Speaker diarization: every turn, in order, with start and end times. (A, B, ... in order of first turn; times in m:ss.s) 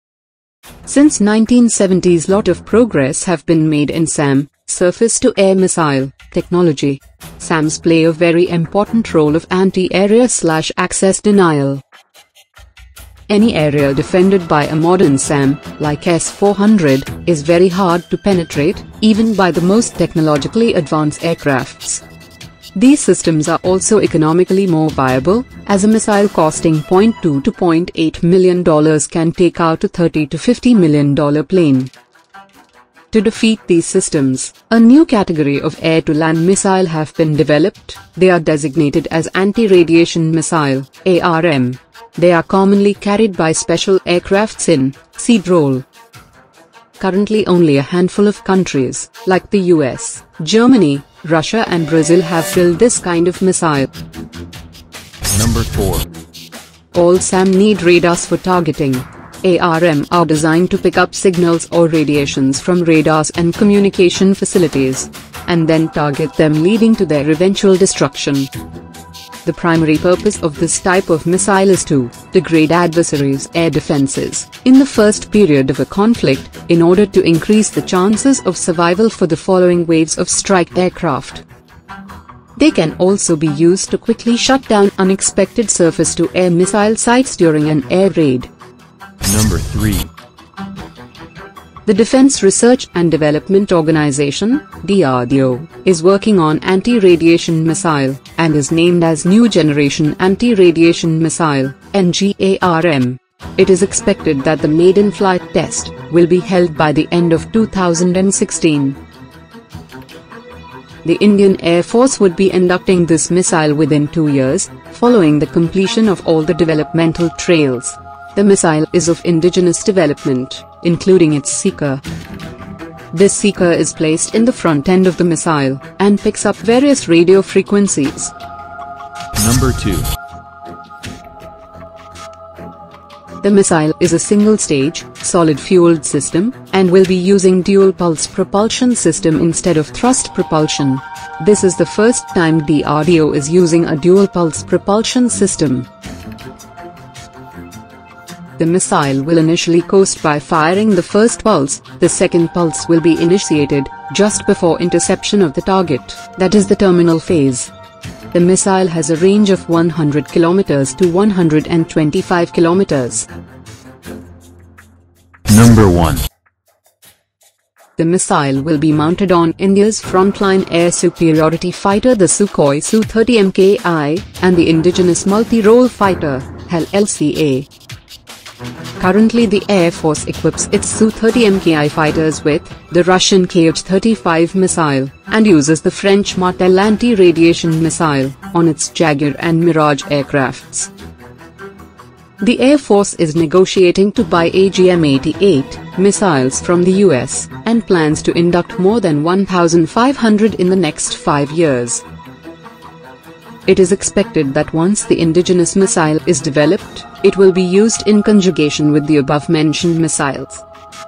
0:00.9-0:11.8 A
0:13.3-0:22.0 A
0:22.8-0:31.9 A
0:33.1-0:45.9 A
0:47.0-0:53.9 A
0:55.3-0:56.1 B
0:56.9-1:08.5 A
1:09.4-1:21.4 A
1:22.6-1:28.5 A
1:29.2-1:30.1 B
1:31.8-1:49.0 A
1:51.0-2:02.0 A
2:03.1-2:08.3 A
2:09.3-2:10.1 B
2:13.4-2:25.9 A
2:28.6-2:37.7 A
2:38.3-2:43.3 A
2:45.5-2:46.2 B
2:48.0-2:57.7 A
2:59.0-3:10.9 A
3:12.4-3:22.0 A
3:23.7-3:30.6 A